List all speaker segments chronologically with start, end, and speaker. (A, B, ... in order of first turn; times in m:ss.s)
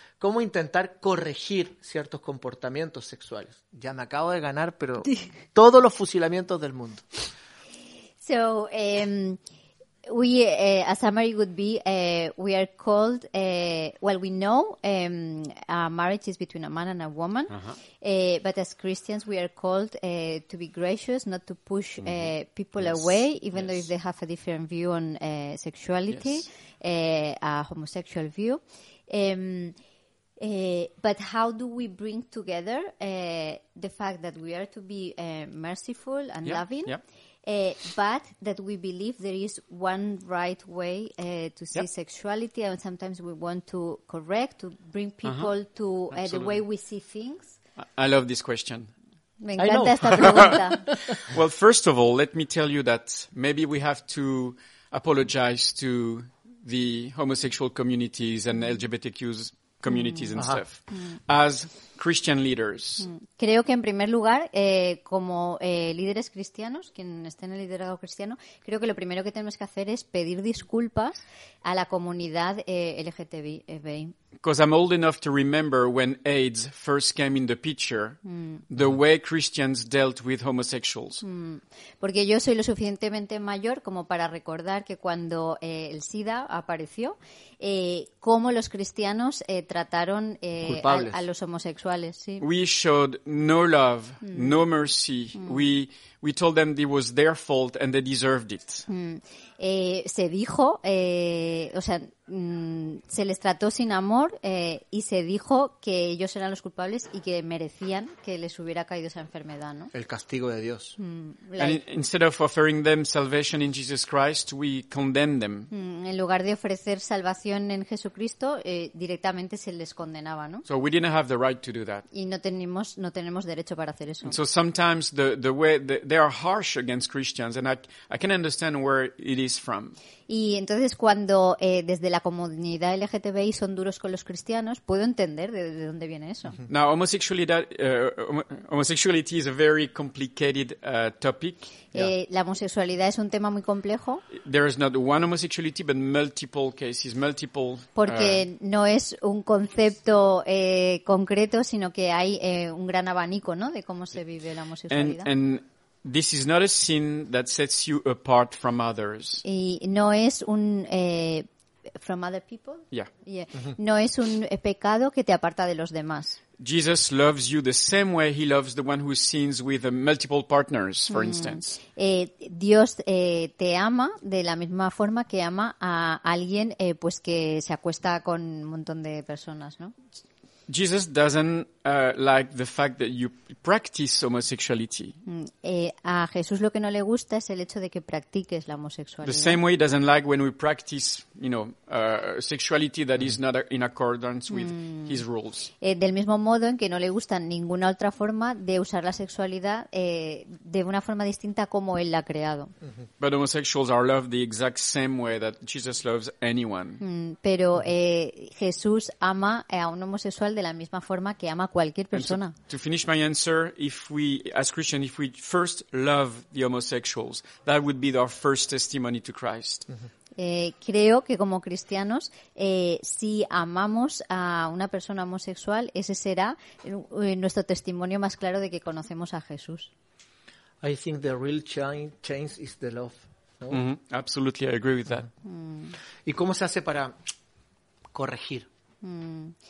0:00.2-0:07.1 A
0:08.2-0:09.4 B
0:10.1-0:29.8 B
0:17.5-0:17.8 C
0:22.0-0:22.3 C
0:23.6-0:23.8 C
0:26.1-0:26.4 C
0:30.4-0:37.0 B
0:36.4-0:37.0 C
0:37.5-0:47.6 B
0:45.2-0:45.5 C
0:46.1-0:46.6 C
0:47.8-0:48.9 C
0:49.4-0:50.8 B
0:49.6-0:51.2 A
0:50.2-0:50.5 C
0:51.2-1:03.1 C
1:00.4-1:00.6 A
1:03.0-1:14.1 B
1:14.4-1:21.2 C
1:18.3-1:18.6 B
1:21.2-1:32.4 B
1:30.6-1:31.2 A
1:32.4-1:38.9 C
1:34.3-1:34.6 B
1:38.9-1:49.9 B
1:49.9-1:51.0 A
1:51.0-1:51.8 B
1:51.6-1:55.7 C
1:55.7-2:00.6 B
2:00.7-2:02.1 C
2:02.1-2:04.4 B
2:04.2-2:10.0 C
2:10.3-2:16.6 B
2:16.7-2:22.1 C
2:21.9-2:24.2 B
2:24.4-2:28.4 C
2:28.0-2:35.3 B
2:34.9-2:39.4 C
2:39.4-2:41.5 B
2:42.0-2:46.4 B
2:46.6-2:51.8 C
2:51.1-2:59.9 B
3:00.7-3:05.2 C
3:05.3-3:09.6 B
3:09.2-3:15.7 C
3:14.5-3:15.2 B
3:15.8-3:22.7 B
3:23.2-3:27.0 C
3:27.0-3:32.5 B
3:32.1-3:39.9 C
3:40.4-3:49.9 B
3:50.8-3:53.8 A
3:53.7-3:55.3 C
3:55.4-3:56.0 B
3:56.3-3:57.1 A
3:58.1-3:58.7 A
3:59.0-3:59.6 B